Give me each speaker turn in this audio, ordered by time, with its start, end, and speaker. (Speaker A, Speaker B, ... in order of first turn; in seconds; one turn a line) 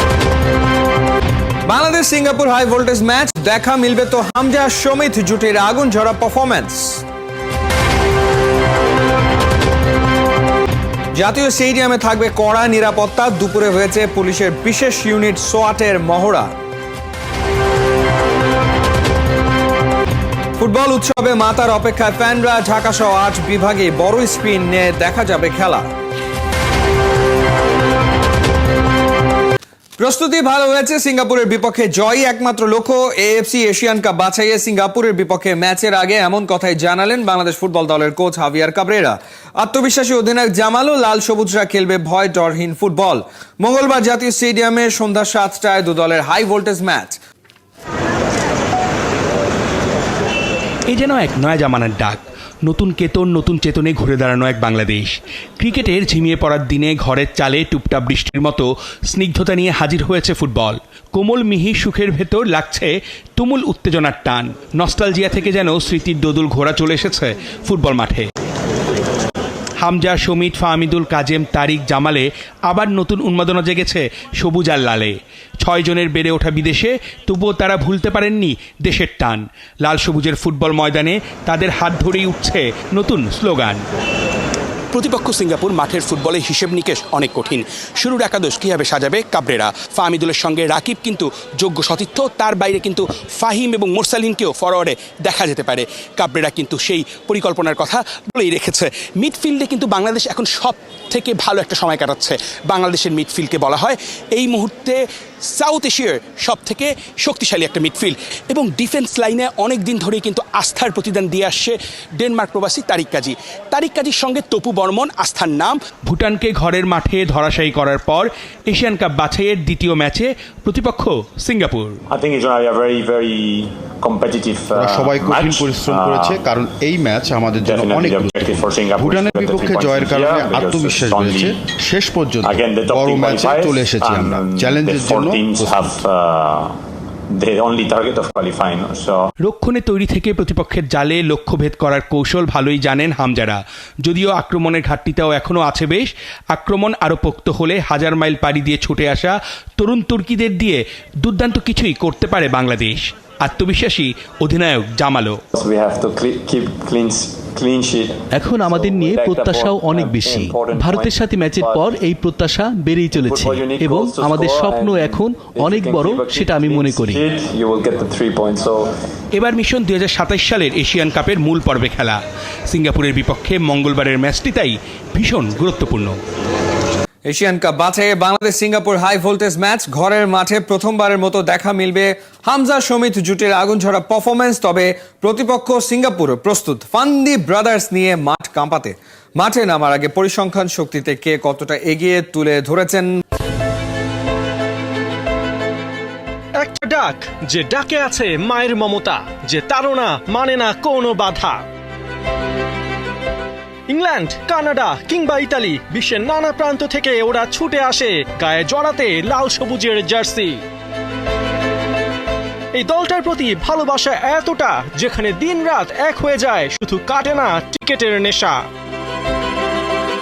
Speaker A: 1.7-7.0
Speaker A: 11.1-16.5
Speaker A: 20.6-25.9
Speaker A: 30.0-47.2
Speaker B: 50.9-68.3
Speaker B: 69.8-83.8
Speaker B: 84.9-105.0
Speaker B: 105.5-122.0
Speaker C: 122.1-126.5
Speaker D: 124.7-136.0
Speaker C: 127.6-131.5
Speaker C: 132.4-136.8
Speaker C: 137.3-139.3
Speaker B: 139.4-155.4
Speaker C: 155.5-162.0
Speaker E: 158.3-167.2
Speaker C: 163.1-168.9
Speaker B: 169.3-172.2
Speaker B: 172.7-176.2
Speaker A: 177.2-193.1
Speaker F: 196.6-201.6
Speaker F: 203.9-210.6
Speaker F: 212.7-218.6